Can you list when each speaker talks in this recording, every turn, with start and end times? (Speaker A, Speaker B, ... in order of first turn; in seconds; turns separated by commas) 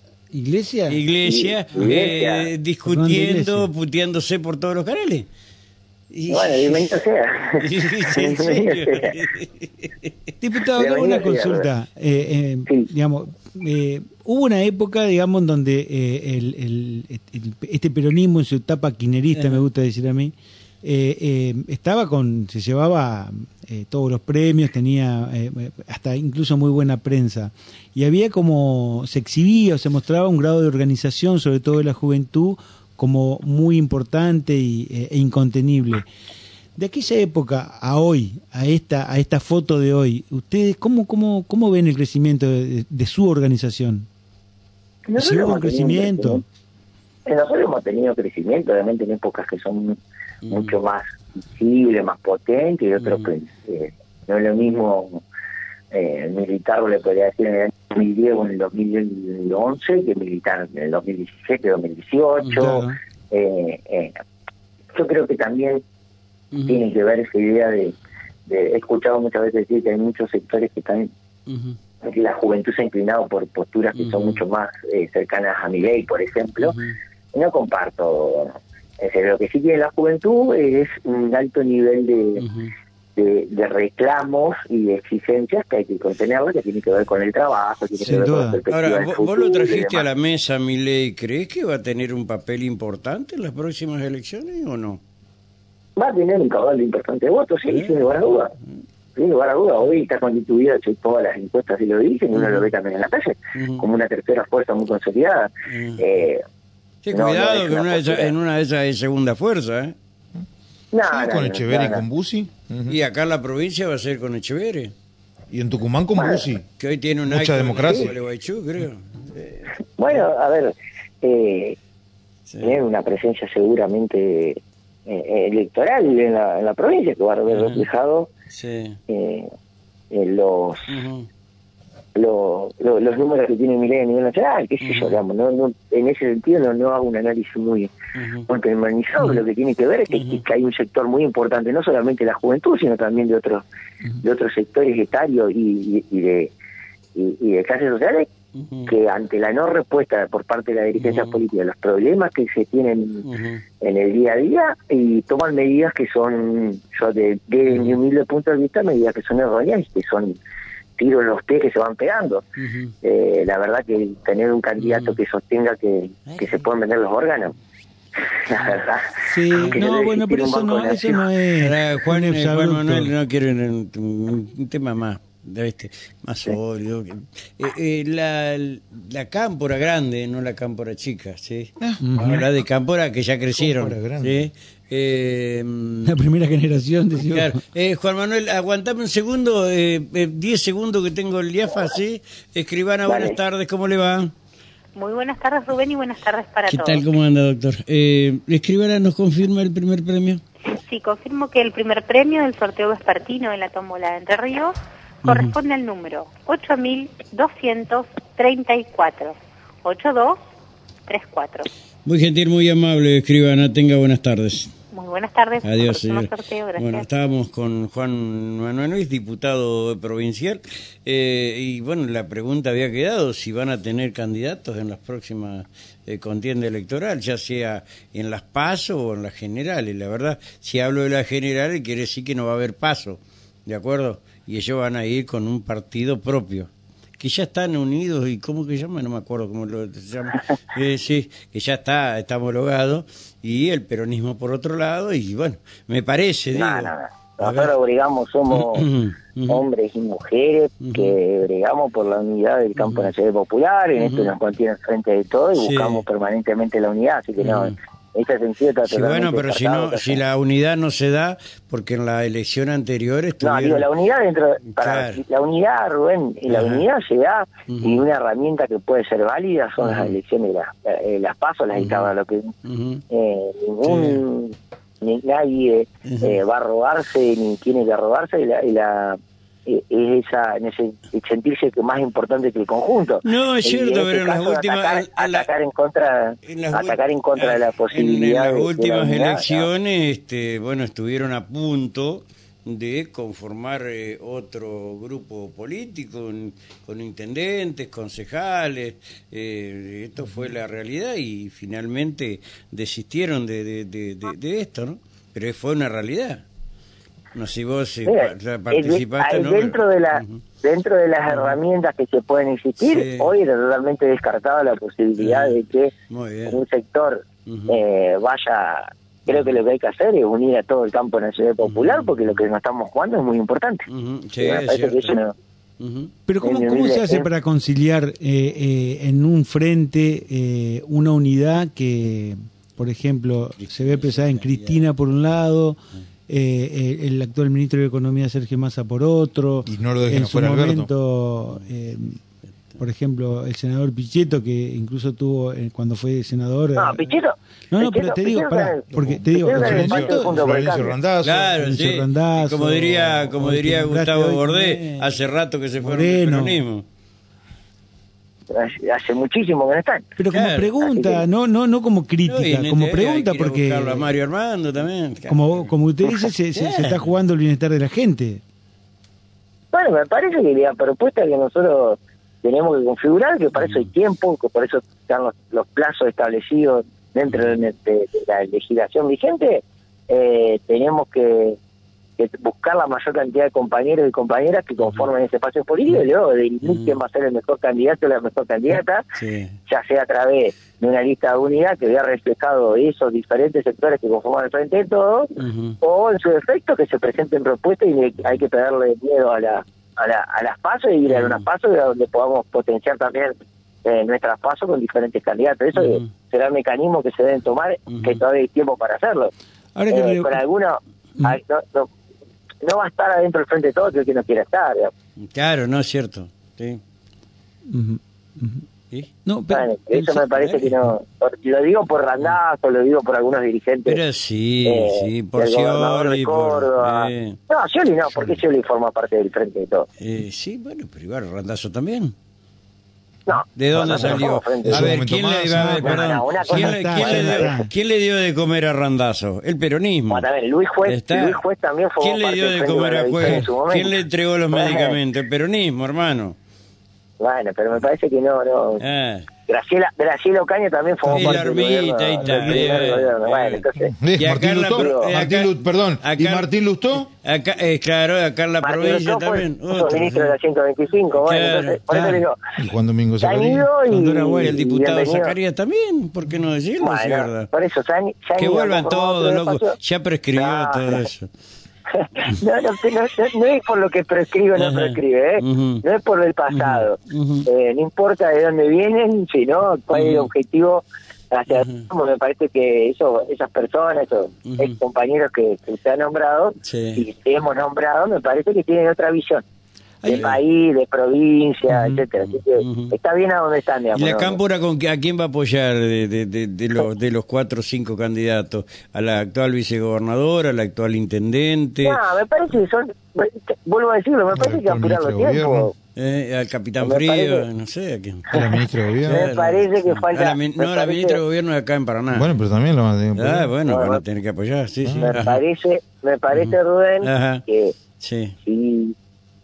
Speaker A: 0.3-1.0, Speaker B: 0.9-5.3, Speaker C: 1.2-2.5, Speaker A: 2.9-3.7, Speaker B: 6.1-6.9, Speaker C: 6.3-9.1, Speaker B: 7.6-9.9, Speaker A: 10.4-36.1, Speaker C: 10.8-11.7, Speaker B: 19.4-19.6, Speaker A: 36.8-44.1, Speaker C: 45.1-46.4, Speaker A: 45.2-46.4, Speaker C: 47.2-50.0, Speaker B: 50.5-50.7, Speaker C: 50.5-55.2, Speaker B: 53.0-53.3, Speaker C: 55.9-64.1, Speaker B: 62.4-62.8, Speaker A: 62.5-63.0, Speaker C: 64.9-65.8, Speaker B: 66.5-66.8, Speaker C: 66.7-68.0, Speaker C: 68.5-71.1, Speaker B: 71.5-71.8, Speaker C: 72.0-76.8, Speaker B: 74.0-74.4, Speaker B: 76.6-77.0, Speaker C: 77.3-82.4, Speaker B: 82.4-82.7, Speaker C: 83.2-90.0, Speaker A: 88.0-88.6, Speaker B: 88.7-95.0, Speaker C: 96.0-98.5, Speaker B: 97.7-98.0, Speaker C: 99.2-106.4, Speaker B: 102.3-102.7, Speaker B: 103.5-103.8, Speaker B: 105.7-106.0, Speaker B: 107.0-110.0, Speaker C: 107.1-108.3, Speaker C: 110.9-112.0, Speaker D: 111.1-113.0, Speaker B: 112.9-114.9, Speaker D: 115.5-116.6, Speaker C: 116.2-116.5, Speaker B: 116.8-119.6, Speaker D: 117.3-118.1, Speaker C: 120.0-121.8, Speaker B: 122.5-122.8, Speaker C: 122.6-128.3, Speaker B: 127.5-127.8, Speaker B: 128.5-129.0, Speaker C: 129.1-129.5, Speaker C: 130.1-131.0, Speaker B: 130.9-131.3, Speaker C: 132.1-137.9, Speaker B: 134.8-135.2, Speaker B: 138.2-138.5, Speaker C: 138.5-143.6, Speaker B: 140.1-140.4, Speaker C: 144.2-146.5, Speaker C: 147.1-148.3, Speaker B: 148.5-148.9, Speaker C: 148.9-153.2, Speaker B: 151.0-151.4, Speaker B: 153.2-153.6, Speaker C: 153.8-160.4, Speaker B: 157.7-158.0, Speaker C: 161.0-162.4, Speaker B: 162.6-162.9, Speaker C: 163.0-167.5, Speaker B: 164.8-165.2, Speaker B: 166.3-166.6, Speaker C: 168.4-171.2, Speaker A: 169.2-173.1, Speaker B: 171.6-186.1, Speaker D: 181.8-182.5, Speaker A: 182.0-182.4, Speaker D: 183.6-184.4, Speaker A: 186.0-187.6, Speaker B: 187.2-194.3, Speaker C: 193.1-193.4, Speaker E: 194.9-197.1, Speaker B: 196.7-200.4, Speaker E: 200.8-210.4, Speaker B: 205.2-205.5, Speaker E: 211.1-211.7, Speaker B: 212.0-214.7, Speaker E: 214.9-217.1, Speaker B: 215.6-247.7, Speaker C: 246.5-248.9, Speaker B: 248.5-249.6, Speaker C: 249.5-260.2, Speaker B: 250.8-251.1, Speaker B: 252.8-253.1, Speaker B: 254.0-254.3, Speaker B: 255.6-256.0, Speaker B: 257.4-257.8, Speaker B: 258.9-263.9, Speaker C: 263.4-272.5, Speaker B: 264.7-265.2, Speaker B: 266.5-266.8, Speaker B: 267.7-268.0, Speaker B: 269.8-270.2, Speaker B: 271.7-272.1, Speaker B: 272.6-273.0, Speaker C: 273.1-289.7, Speaker B: 273.8-274.2, Speaker B: 276.1-276.4, Speaker B: 283.2-285.5, Speaker B: 286.4-306.4, Speaker B: 307.3-310.4, Speaker C: 308.1-315.9, Speaker B: 311.3-311.6, Speaker B: 312.8-313.3, Speaker B: 315.2-315.6, Speaker B: 316.1-316.6, Speaker C: 316.5-323.9, Speaker B: 317.5-317.8, Speaker B: 321.6-322.4, Speaker B: 323.9-325.1, Speaker C: 324.4-325.3, Speaker B: 325.8-326.1, Speaker A: 326.3-342.2, Speaker C: 326.4-327.3, Speaker B: 333.6-334.9, Speaker D: 339.6-340.9, Speaker A: 342.8-347.1, Speaker C: 346.8-350.9, Speaker A: 347.7-350.4, Speaker D: 348.9-351.5, Speaker B: 351.2-356.9, Speaker A: 351.6-355.1, Speaker A: 355.8-356.6, Speaker C: 358.5-360.1, Speaker A: 360.2-364.1, Speaker B: 360.3-360.7, Speaker C: 360.8-361.2, Speaker B: 362.2-365.7, Speaker A: 365.3-368.4, Speaker B: 366.5-367.0, Speaker C: 369.7-381.6, Speaker B: 373.6-373.9, Speaker C: 382.2-389.0, Speaker B: 384.8-385.1, Speaker B: 386.6-387.0, Speaker B: 389.1-389.6, Speaker C: 389.6-403.3, Speaker B: 395.4-395.8, Speaker B: 401.1-401.4, Speaker C: 403.8-409.3, Speaker B: 405.7-406.1, Speaker B: 407.9-408.2, Speaker A: 409.7-410.4, Speaker C: 409.9-411.9, Speaker C: 412.6-414.9, Speaker B: 415.3-416.8, Speaker A: 417.7-418.6, Speaker A: 419.2-420.5, Speaker C: 419.5-424.0, Speaker B: 423.9-427.4, Speaker C: 424.6-429.9, Speaker B: 430.0-432.1, Speaker C: 433.3-435.0, Speaker B: 433.5-440.2, Speaker D: 433.8-436.0, Speaker A: 434.7-435.0, Speaker A: 435.5-435.9, Speaker C: 435.6-437.5, Speaker A: 436.4-437.7, Speaker C: 440.1-443.9, Speaker B: 440.8-441.4, Speaker B: 442.0-446.4, Speaker A: 443.2-443.5, Speaker C: 444.5-445.0, Speaker C: 447.2-448.8, Speaker B: 448.8-449.3, Speaker C: 449.5-453.9, Speaker A: 451.1-451.5, Speaker B: 451.1-456.5, Speaker A: 452.2-453.0, Speaker D: 454.0-457.1, Speaker C: 454.7-455.1, Speaker B: 457.1-460.3, Speaker C: 458.6-462.4, Speaker B: 461.2-461.8, Speaker A: 461.9-462.2, Speaker D: 462.6-463.7, Speaker C: 463.2-465.3, Speaker A: 463.9-464.6, Speaker B: 463.9-467.5, Speaker C: 466.8-469.7, Speaker B: 468.4-471.3, Speaker C: 470.3-471.0, Speaker C: 471.9-489.4, Speaker B: 474.5-475.8, Speaker B: 476.5-477.5, Speaker B: 479.9-480.3, Speaker B: 481.5-481.9, Speaker B: 484.5-484.7, Speaker B: 486.6-487.0, Speaker A: 490.0-490.3, Speaker C: 490.0-494.4, Speaker B: 490.1-490.4, Speaker A: 491.7-492.0, Speaker B: 492.2-492.9, Speaker B: 493.9-502.0, Speaker C: 501.8-505.7, Speaker D: 504.3-505.7, Speaker B: 505.9-508.3, Speaker C: 506.8-507.4, Speaker C: 508.3-511.2, Speaker D: 508.3-509.2, Speaker B: 509.1-512.3, Speaker D: 512.1-513.5, Speaker B: 513.1-515.4, Speaker C: 513.7-514.0, Speaker D: 514.8-515.1, Speaker C: 515.0-517.7, Speaker B: 516.3-517.4, Speaker B: 518.0-518.4, Speaker C: 518.4-518.9